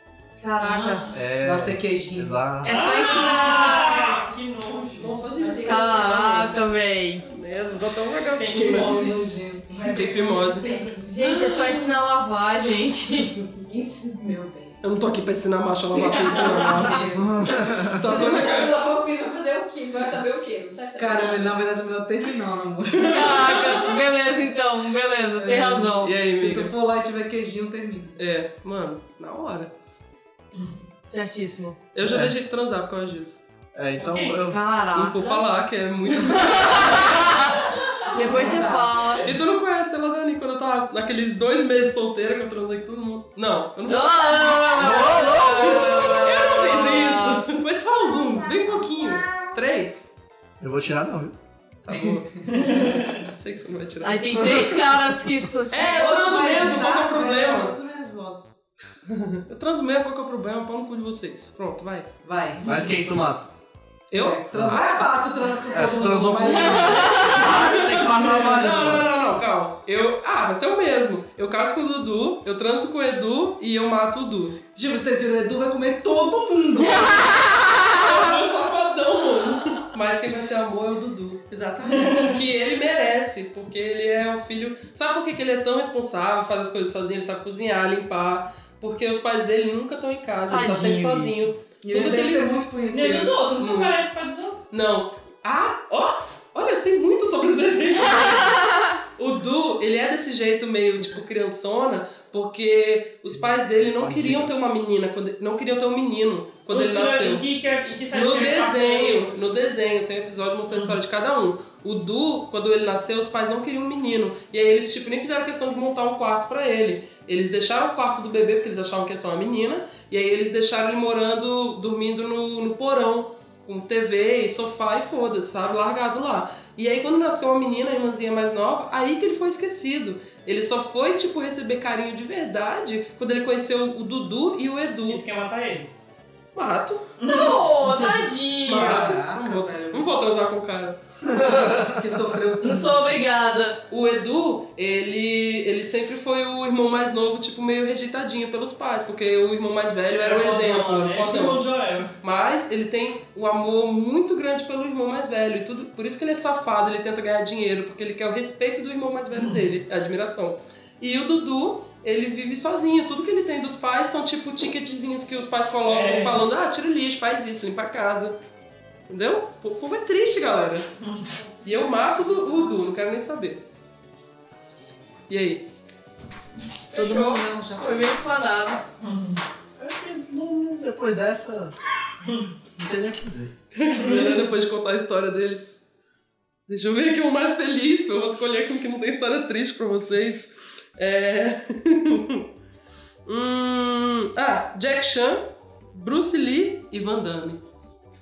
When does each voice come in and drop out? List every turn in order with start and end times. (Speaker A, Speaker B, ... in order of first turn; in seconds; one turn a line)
Speaker A: 0.4-1.1
Speaker B: 0.6-1.1
Speaker C: 1.1-2.8
Speaker D: 1.3-2.5
Speaker A: 2.6-4.0
Speaker E: 2.7-5.2
Speaker F: 3.4-4.2
Speaker F: 4.9-6.5
Speaker B: 5.3-6.6
Speaker A: 5.6-7.2
Speaker F: 7.2-9.1
Speaker E: 8.4-9.2
Speaker D: 8.5-10.5
Speaker B: 9.8-11.8
Speaker F: 9.9-10.7
Speaker A: 11.1-13.5
Speaker B: 13.6-14.8
Speaker F: 14.8-18.8
Speaker A: 15.9-17.1
Speaker B: 15.9-21.6
Speaker C: 17.2-18.0
Speaker A: 18.0-18.3
Speaker D: 20.9-23.4
Speaker F: 22.9-24.0
Speaker A: 23.1-26.2
Speaker D: 25.4-28.2
Speaker F: 26.0-26.7
Speaker F: 28.1-29.7
Speaker A: 31.1-31.8
Speaker F: 31.9-33.4
Speaker C: 32.0-32.3
Speaker C: 33.7-34.6
Speaker E: 34.0-34.4
Speaker A: 34.5-35.5
Speaker F: 34.9-37.3
Speaker A: 36.1-39.2
Speaker D: 38.2-39.0
Speaker F: 39.2-44.6
Speaker A: 43.9-47.5
Speaker C: 44.7-46.3
Speaker F: 45.6-50.1
Speaker C: 50.6-51.4
Speaker F: 51.8-54.6
Speaker D: 51.9-52.2
Speaker E: 52.5-53.1
Speaker A: 54.0-55.8
Speaker C: 54.3-54.8
Speaker F: 55.7-57.8
Speaker D: 55.7-58.6
Speaker F: 59.1-62.1
Speaker D: 62.2-62.9
Speaker C: 62.6-63.5
Speaker F: 64.1-65.2
Speaker D: 64.1-67.6
Speaker C: 64.5-64.8
Speaker C: 65.7-69.1
Speaker A: 66.7-67.5
Speaker F: 67.1-74.6
Speaker D: 74.7-77.4
Speaker F: 77.9-92.6
Speaker D: 81.5-82.3
Speaker A: 90.5-91.3
Speaker D: 91.8-93.4
Speaker E: 92.9-94.6
Speaker F: 93.6-94.0
Speaker F: 94.7-98.6
Speaker F: 99.2-107.5
Speaker C: 103.3-104.5
Speaker E: 106.7-109.3
Speaker F: 108.1-135.2
Speaker E: 110.7-110.9
Speaker E: 135.1-135.9
Speaker F: 136.5-137.1
Speaker E: 137.2-137.6
Speaker A: 137.3-139.2
Speaker F: 138.7-141.0
Speaker D: 138.7-140.1
Speaker C: 141.3-141.9
Speaker D: 141.4-143.2
Speaker A: 142.6-143.8
Speaker F: 143.9-151.6
Speaker E: 150.1-152.1
Speaker F: 152.2-168.4
Speaker E: 165.9-166.4
Speaker F: 169.1-170.9
Speaker E: 171.0-171.3
Speaker F: 171.6-173.6
Speaker F: 175.3-175.7
Speaker A: 176.9-178.8
Speaker D: 176.9-178.1
Speaker E: 179.0-179.4
Speaker C: 179.8-181.8
Speaker C: 182.8-183.5
Speaker F: 183.7-185.8
Speaker F: 186.7-192.4
Speaker F: 193.2-197.6